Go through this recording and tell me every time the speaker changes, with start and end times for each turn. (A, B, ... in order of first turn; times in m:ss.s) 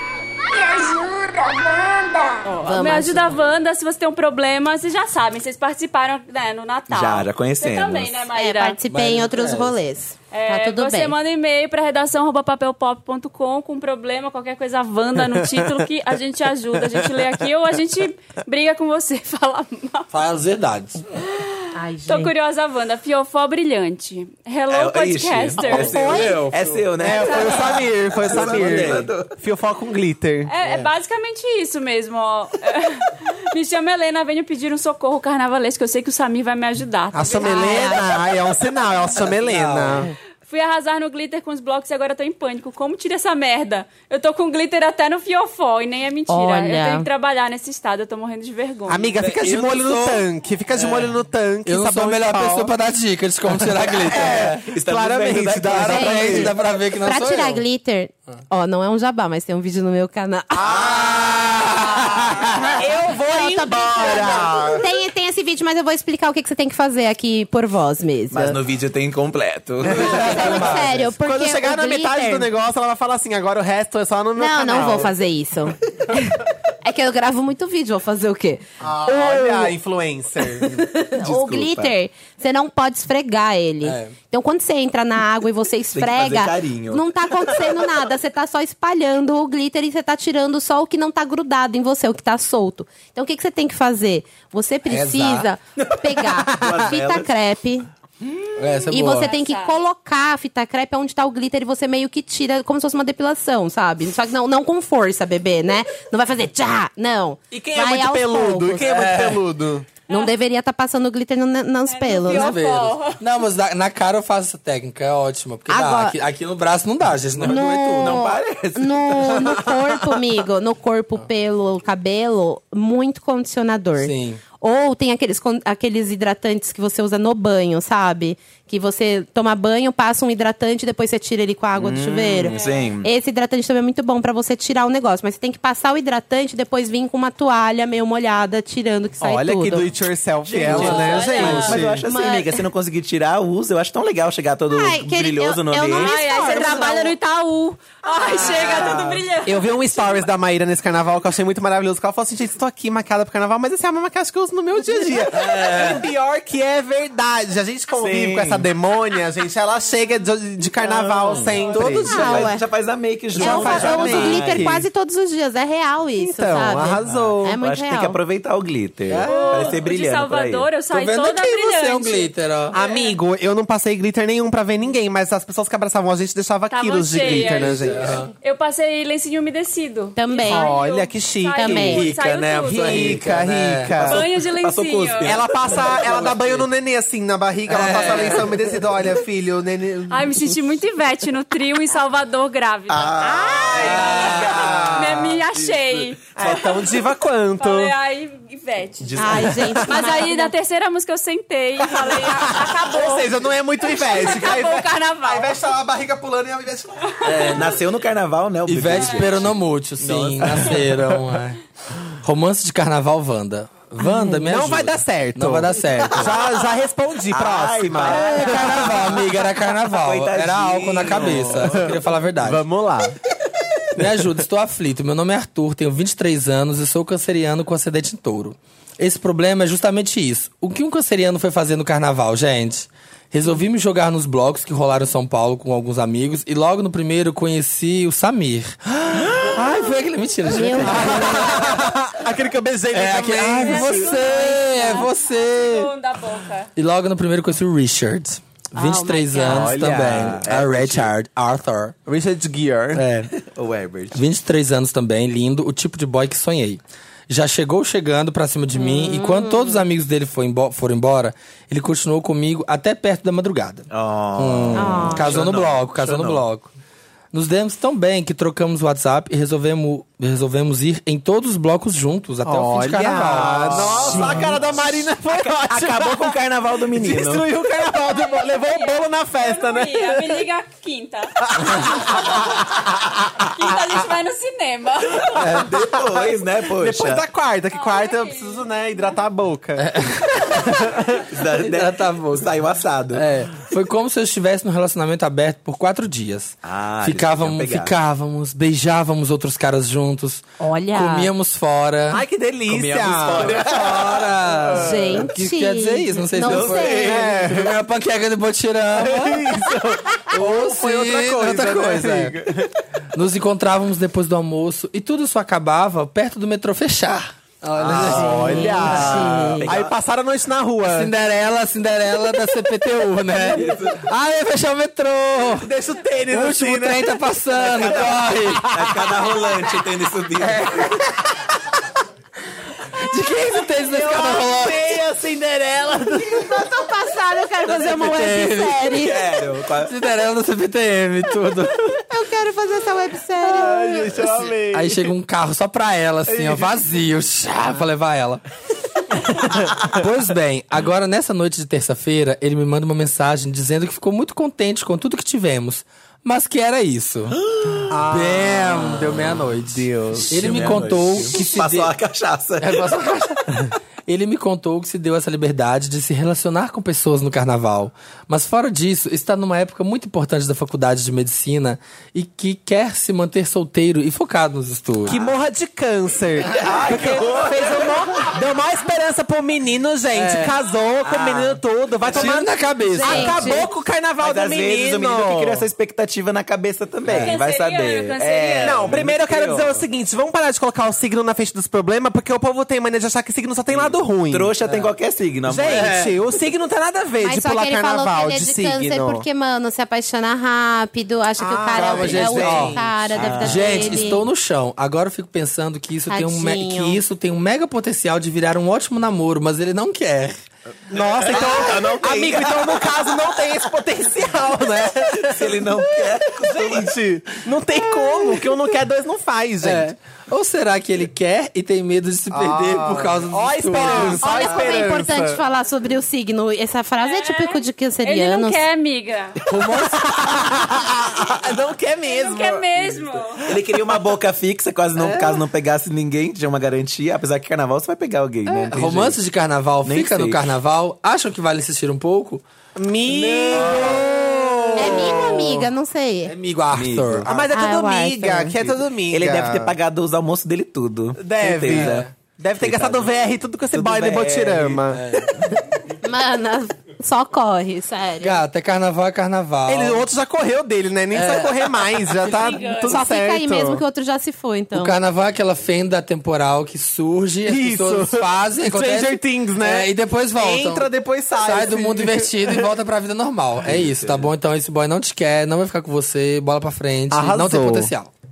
0:00.5-0:02.6 A
0:02.4-0:08.8 B
0:02.6-0:03.4 C
0:06.9-0:08.2 D
0:08.3-0:11.1 C
0:08.9-0:09.7 E
0:10.3-0:20.1 B
0:15.3-0:15.8 F
0:16.8-0:17.2 F
0:20.1-0:21.0 E
0:21.2-0:26.4 B
0:21.7-0:22.3 C
0:24.7-0:29.3 D
0:25.6-0:26.9 E
0:27.0-0:30.5 F
0:27.1-0:27.9 B
0:30.5-0:38.0 B
0:30.6-0:30.9 D
0:37.1-0:40.1 F
0:37.4-0:38.1 C
0:39.4-0:40.1 E
0:40.4-0:49.1 B
0:46.3-0:47.1 C
0:48.9-0:52.7 F
0:49.3-0:50.2 E
0:50.7-0:51.1 E
0:51.6-0:54.7 E
0:53.6-0:56.5 F
0:54.0-0:56.5 D
0:55.7-0:57.6 E
0:55.8-1:00.8 C
1:00.6-1:04.9 F
1:00.6-1:01.6 D
1:01.1-1:02.3 E
1:03.1-1:08.6 C
1:08.3-1:10.8 D
1:09.8-1:10.5 F
1:09.9-1:11.1 E
1:10.1-1:12.5 C
1:11.2-1:15.1 F
1:14.4-1:19.7 C
1:18.8-1:20.9 F
1:20.6-1:37.9 C
1:21.2-1:21.9 D
1:23.8-1:24.1 E
1:25.9-1:27.9 D
1:34.8-1:35.5 E
1:35.8-1:37.3 D
1:38.2-1:38.7 D
1:38.6-1:39.3 E
1:38.9-1:48.9 C
1:39.1-1:39.8 B
1:47.5-1:49.9 F
1:48.9-1:49.4 E
1:50.1-1:52.6 C
1:51.9-1:53.2 B
1:52.2-1:58.3 E
1:55.7-1:56.2 C
1:57.4-1:59.8 D
1:57.4-2:19.9 C
2:04.0-2:04.4 E
2:11.7-2:13.1 D
2:12.5-2:12.9 B
2:19.2-2:22.0 F
2:20.4-2:26.9 D
2:20.6-2:21.8 E
2:20.7-2:21.8 B
2:22.0-2:22.6 C
2:24.7-2:27.2 C
2:25.9-2:29.8 B
2:28.1-2:42.1 F
2:28.3-2:29.2 D
2:35.3-2:36.0 E
2:38.0-2:38.7 D
2:41.1-2:44.8 D
2:41.7-2:42.5 E
2:42.0-2:42.6 C
2:43.3-2:48.2 C
2:43.3-2:44.8 F
2:46.2-2:47.6 F
2:47.0-2:50.7 D
2:49.1-2:49.8 E
2:49.2-2:53.2 B
2:50.9-2:52.7 E
2:52.7-2:58.2 F
2:56.7-3:03.2 B
2:57.3-2:58.3 E
3:00.2-3:00.8 C
3:00.4-3:02.1 F
3:01.6-3:02.0 C
3:01.8-3:04.0 E
3:02.7-3:04.2 F
3:04.0-3:06.4 D
3:04.0-3:05.4 B
3:05.2-3:10.5 F
3:05.9-3:06.6 E
3:07.7-3:08.5 E
3:07.9-3:08.3 D
3:10.1-3:13.2 B
3:12.9-3:16.6 D
3:13.2-3:15.4 F
3:13.8-3:14.9 E
3:15.0-3:16.8 B
3:16.4-3:17.9 F
3:17.6-3:25.6 B
3:19.0-3:19.8 D
3:19.2-3:20.5 C
3:21.9-3:27.5 F
3:27.1-3:27.7 B
3:27.2-3:30.8 D
3:28.6-3:36.3 E
3:29.0-3:29.3 B
3:34.2-3:39.2 F
3:36.1-3:36.5 D
3:37.3-3:42.0 D
3:38.0-3:42.6 E
3:41.1-3:43.2 F
3:44.0-4:01.6 E
4:00.5-4:01.6 C
4:00.8-4:04.1 F
4:02.9-4:05.9 E
4:03.6-4:06.7 B
4:04.1-4:05.1 C
4:06.8-4:12.0 E
4:08.7-4:09.8 C
4:09.5-4:11.1 D
4:09.5-4:10.5 F
4:12.0-4:13.0 F
4:12.9-4:13.3 E
4:13.3-4:14.2 D
4:14.1-4:26.7 E
4:18.7-4:19.8 C
4:23.9-4:26.4 D
4:24.7-4:25.4 C
4:27.3-4:34.4 E
4:32.4-4:40.4 F
4:33.3-4:37.4 D
4:38.0-4:42.7 B
4:41.4-4:42.9 F
4:43.4-4:45.6 B
4:45.3-4:47.2 D
4:45.4-4:45.7 E
4:45.8-4:51.3 F
4:47.7-4:49.1 B
4:49.8-4:50.9 E
4:51.3-4:53.3 D
4:51.5-4:52.5 E
4:53.1-5:02.2 E
4:56.6-4:57.9 D
5:00.6-5:01.3 C
5:02.1-5:05.2 F
5:02.7-5:04.3 D
5:03.6-5:09.5 E
5:04.7-5:07.2 C
5:06.3-5:07.3 D
5:07.0-5:07.8 F
5:08.9-5:12.7 F
5:10.3-5:12.4 E
5:13.1-5:19.1 E
5:17.8-5:18.3 D
5:17.8-5:21.1 F
5:18.1-5:19.7 C
5:18.8-5:19.9 D
5:20.9-5:25.7 E
5:23.4-5:24.0 D
5:25.6-5:29.3 F
5:26.3-5:28.8 E
5:27.6-5:31.0 D
5:30.4-5:31.1 E
5:33.0-5:35.0 E
5:33.8-5:36.7 F
5:36.4-5:39.2 C
5:37.7-5:38.9 E
5:38.8-5:39.9 D
5:39.8-5:42.0 E
5:42.1-5:44.2 C
5:43.4-5:45.1 F
5:44.6-5:48.4 E
5:46.3-5:46.7 F
5:49.2-5:57.4 E
5:57.4-5:58.0 D
5:57.9-6:00.8 F
5:58.1-6:01.9 E
6:00.3-6:03.0 D
6:02.6-6:15.2 E
6:15.0-6:25.6 F
6:16.5-6:18.3 D
6:20.1-6:20.6 E
6:21.0-6:21.6 D
6:22.0-6:23.6 E
6:22.9-6:23.7 C
6:24.2-6:29.8 D
6:27.0-6:27.4 E
6:27.1-6:29.0 B
6:28.6-6:34.5 F
6:33.7-6:35.9 D
6:34.6-6:34.9 E
6:35.4-6:39.2 F
6:35.7-6:36.1 E
6:37.2-6:44.2 C
6:41.4-6:43.5 F
6:41.8-6:42.8 E
6:41.9-6:44.1 D
6:43.3-6:50.4 E
6:46.1-6:47.0 C
6:50.9-6:53.3 D
6:50.9-6:59.9 F
6:55.2-6:56.9 D
6:59.6-7:04.5 E
7:02.3-7:05.4 F
7:03.8-7:08.6 C
7:07.0-7:09.4 B
7:09.5-7:14.0 F
7:09.6-7:10.0 E
7:12.1-7:13.4 B
7:13.4-7:19.2 D
7:15.0-7:15.4 E
7:18.4-7:22.4 E
7:19.8-7:20.5 D
7:22.8-7:25.7 F
7:23.1-7:24.1 E
7:23.6-7:24.0 D
7:24.6-7:25.2 E
7:24.8-7:26.3 C
7:26.3-7:27.3 E
7:26.7-7:27.4 D
7:27.2-7:29.7 F
7:27.5-7:28.6 C
7:29.1-7:32.1 D
7:31.2-7:35.0 F
7:31.7-7:32.1 E
7:32.6-7:33.1 D
7:33.7-7:34.9 D
7:34.9-7:35.4 E
7:36.0-7:38.4 C
7:38.2-7:40.0 E
7:39.7-7:43.8 F
7:41.1-7:42.5 E
7:42.2-7:43.0 B
7:42.8-7:45.0 C
7:44.7-7:50.9 E
7:47.4-7:52.7 F
7:51.4-7:58.1 E
7:53.6-7:54.3 D
7:57.1-7:57.9 F